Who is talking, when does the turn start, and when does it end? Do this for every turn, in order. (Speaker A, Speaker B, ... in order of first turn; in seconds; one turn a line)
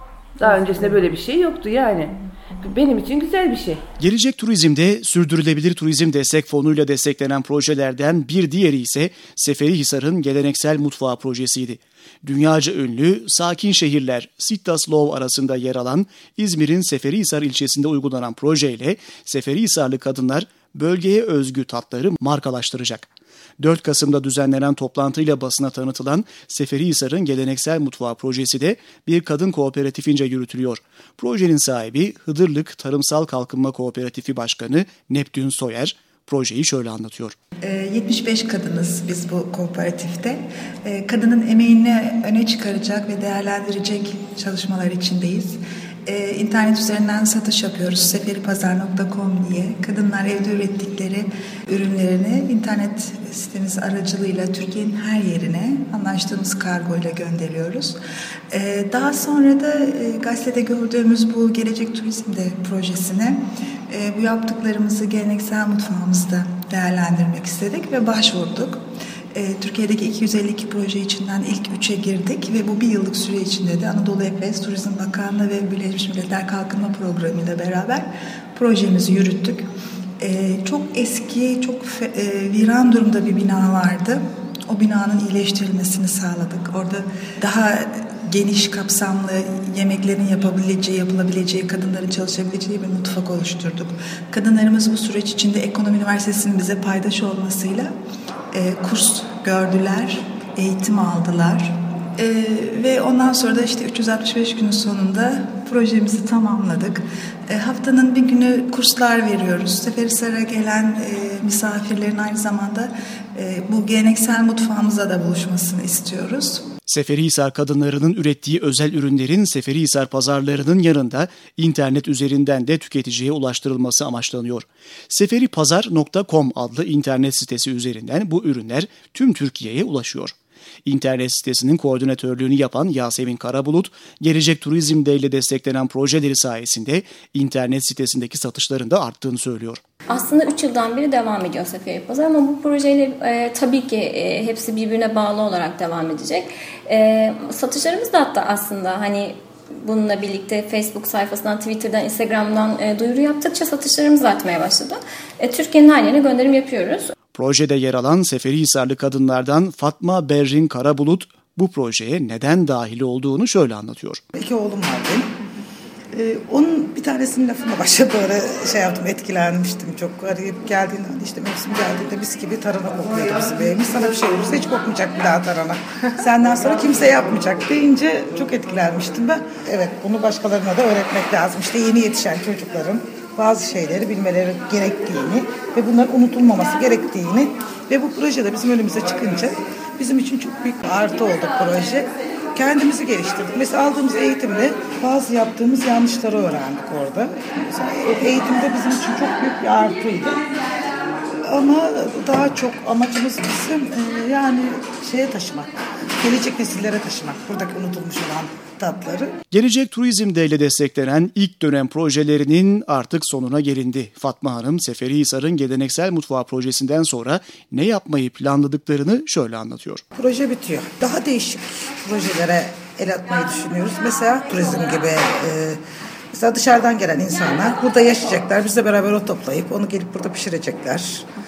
Speaker A: 0.4-3.8
Speaker B: 4.0-23.1
Speaker B: 23.6-37.4
Speaker C: 37.6-58.0
Speaker C: 58.5-68.8
Speaker C: 69.3-79.7
Speaker C: 80.2-97.9
Speaker C: 98.5-116.7
Speaker B: 116.9-130.3
Speaker B: 130.9-139.8
Speaker D: 140.1-157.1
Speaker B: 157.3-164.2
Speaker E: 164.3-165.3
Speaker E: 166.1-200.4
Speaker E: 201.5-209.3
Speaker B: 209.5-220.0
Speaker E: 220.2-225.8
Speaker E: 226.3-231.3